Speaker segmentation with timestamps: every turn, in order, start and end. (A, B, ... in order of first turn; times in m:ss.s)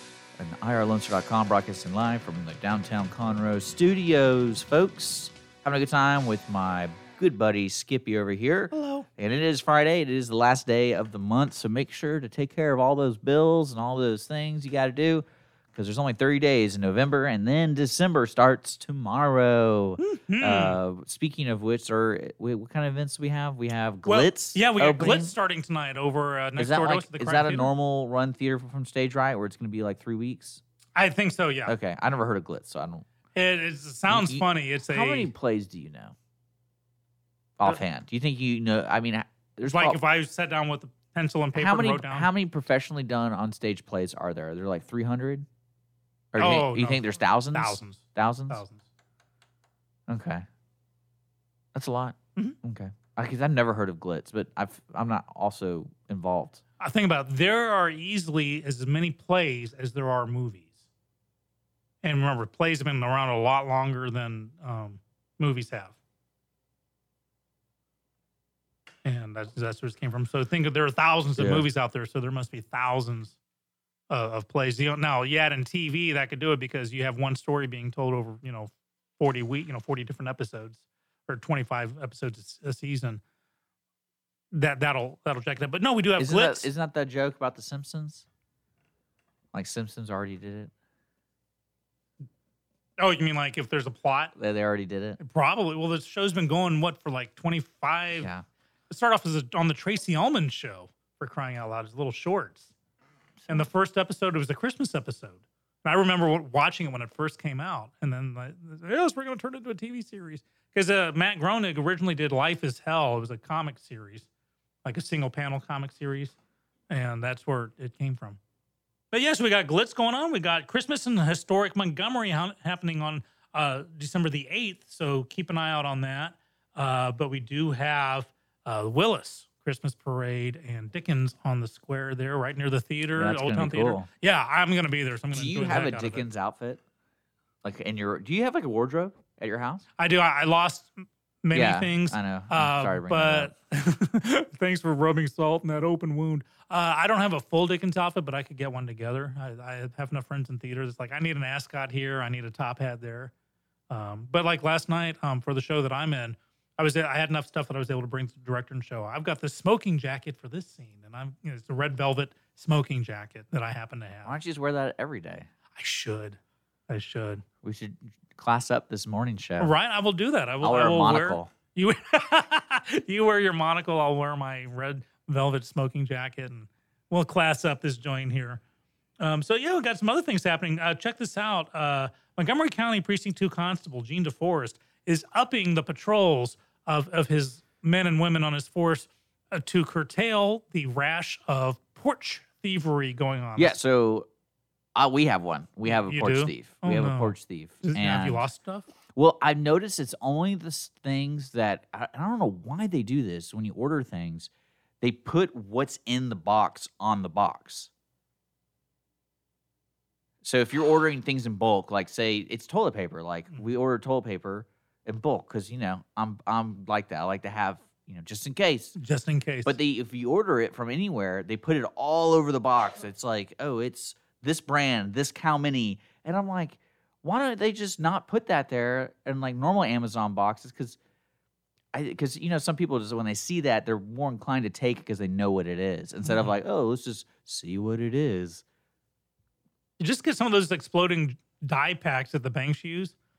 0:00.4-0:25.3 A
0:08.7-0:09.1 B
0:20.0-0:20.8 B
0:24.0-0:27.7 B
0:26.6-0:30.6 A
0:31.0-0:31.8 B
0:31.6-0:33.0 A
0:33.4-0:35.3 B
0:34.1-0:36.2 A
0:37.6-0:40.0 A
0:39.6-0:42.3 B
0:41.5-0:45.5 A
0:46.3-0:48.6 A
0:46.4-0:48.8 B
0:50.1-0:50.5 A
0:51.7-0:56.6 A
0:56.8-1:00.8 B
1:02.0-1:06.0 B
1:09.0-1:13.4 B
1:11.4-1:11.7 A
1:14.1-1:23.2 B
1:24.5-1:26.7 B
1:26.2-1:28.3 A
1:29.5-1:30.7 A
1:33.0-1:34.3 B
1:34.4-1:35.2 A
1:35.2-1:38.3 B
1:38.2-1:38.4 A
1:38.9-1:42.7 B
1:43.4-1:43.7 A
1:43.5-1:54.3 B
1:54.8-1:56.4 B
1:56.9-1:58.4 B
1:59.1-2:16.3 B
2:13.2-2:14.1 A
2:15.3-2:16.8 A
2:17.6-2:19.9 A
2:20.0-2:33.3 B
2:21.5-2:23.5 A
2:33.9-2:44.4 B
2:44.2-2:45.5 A
2:45.8-2:46.4 B
2:46.9-2:47.4 B
2:47.6-2:49.7 A
2:49.6-2:58.6 B
2:50.6-2:51.5 A
2:59.2-3:13.8 B
3:13.6-3:14.3 A
3:15.0-3:18.4 A
3:15.8-3:18.9 B
3:19.2-3:24.5 A
3:25.0-3:27.9 A
3:30.4-3:39.0 A
3:39.0-3:39.8 B
3:39.6-3:51.0 A
3:51.9-3:58.6 A
3:56.2-3:56.6 B
4:00.0-4:03.1 B